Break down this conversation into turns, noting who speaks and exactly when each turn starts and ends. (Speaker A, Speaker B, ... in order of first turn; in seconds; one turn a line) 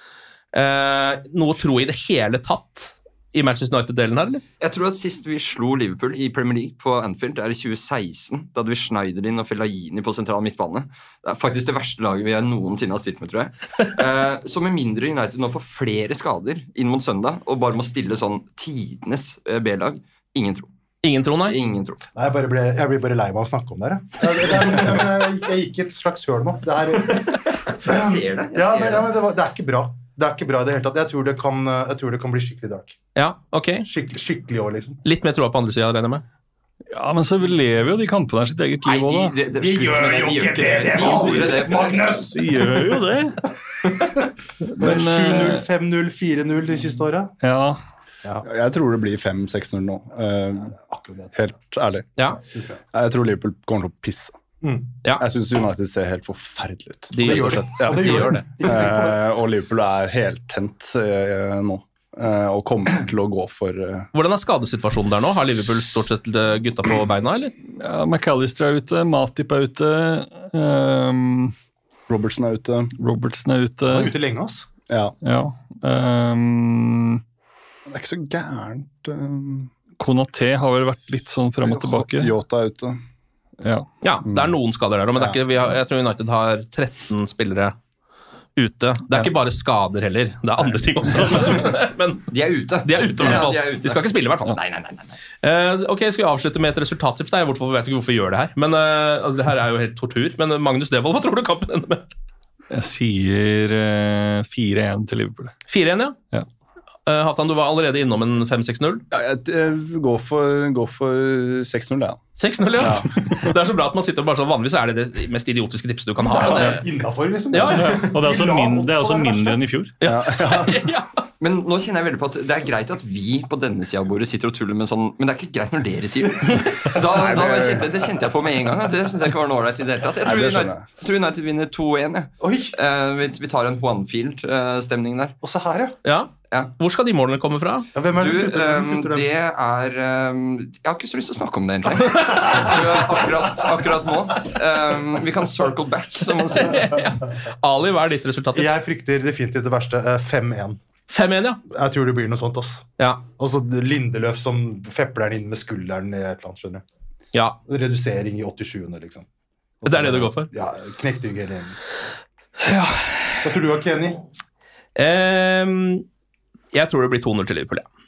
Speaker A: 0.5-4.4
Speaker B: 4.6-20.7
Speaker A: 21.0-21.6
Speaker B: 21.4-22.0
Speaker C: 22.1-33.0
Speaker B: 27.7-29.1
Speaker A: 33.1-33.9
Speaker C: 33.8-35.0
Speaker A: 35.0-36.2
Speaker D: 36.9-39.3
Speaker B: 38.8-42.2
Speaker C: 39.5-43.0
Speaker D: 42.3-43.4
Speaker C: 43.7-44.2
Speaker D: 44.6-45.6
Speaker C: 44.8-47.3
Speaker D: 47.4-47.8
Speaker E: 48.4-50.7
Speaker C: 50.8-51.3
Speaker E: 51.3-52.1
Speaker C: 52.4-52.8
Speaker E: 52.9-54.4
Speaker C: 54.6-54.9
Speaker E: 55.2-64.1
Speaker A: 57.1-58.5
Speaker C: 57.2-59.2
Speaker A: 64.1-67.5
Speaker D: 67.8-71.5
Speaker E: 72.1-72.9
Speaker D: 73.0-74.1
Speaker C: 73.9-74.7
Speaker E: 74.9-75.1
Speaker D: 75.2-77.2
Speaker E: 77.9-79.7
Speaker D: 80.0-82.3
Speaker E: 81.6-83.0
Speaker D: 83.6-83.9
Speaker A: 84.0-87.8
Speaker E: 84.3-84.5
Speaker E: 85.1-85.4
Speaker A: 88.5-92.3
Speaker B: 92.3-95.2
Speaker A: 92.8-94.6
Speaker A: 95.4-102.0
Speaker D: 102.7-105.5
Speaker A: 105.7-106.2
Speaker A: 107.0-109.0
Speaker E: 109.1-112.2
Speaker A: 112.4-116.8
Speaker E: 112.8-113.3
Speaker C: 116.2-119.6
Speaker D: 116.5-116.8
Speaker A: 117.5-118.0
Speaker D: 117.6-120.0
Speaker A: 120.0-121.1
Speaker E: 120.0-120.9
Speaker B: 121.4-135.4
Speaker A: 126.5-126.8
Speaker C: 127.1-127.8
Speaker E: 127.4-127.8
Speaker E: 130.2-130.8
Speaker C: 132.4-132.7
Speaker C: 135.4-135.9
Speaker A: 136.1-137.9
Speaker C: 137.9-139.3
Speaker B: 138.2-146.9
Speaker A: 146.3-148.7
Speaker C: 148.5-150.8
Speaker A: 151.1-151.6
Speaker C: 151.7-152.9
Speaker C: 153.4-156.8
Speaker C: 157.7-159.3
Speaker C: 159.8-161.8
Speaker A: 159.9-160.5
Speaker A: 162.6-163.4
Speaker C: 163.4-164.2
Speaker A: 164.9-166.1
Speaker A: 166.7-167.9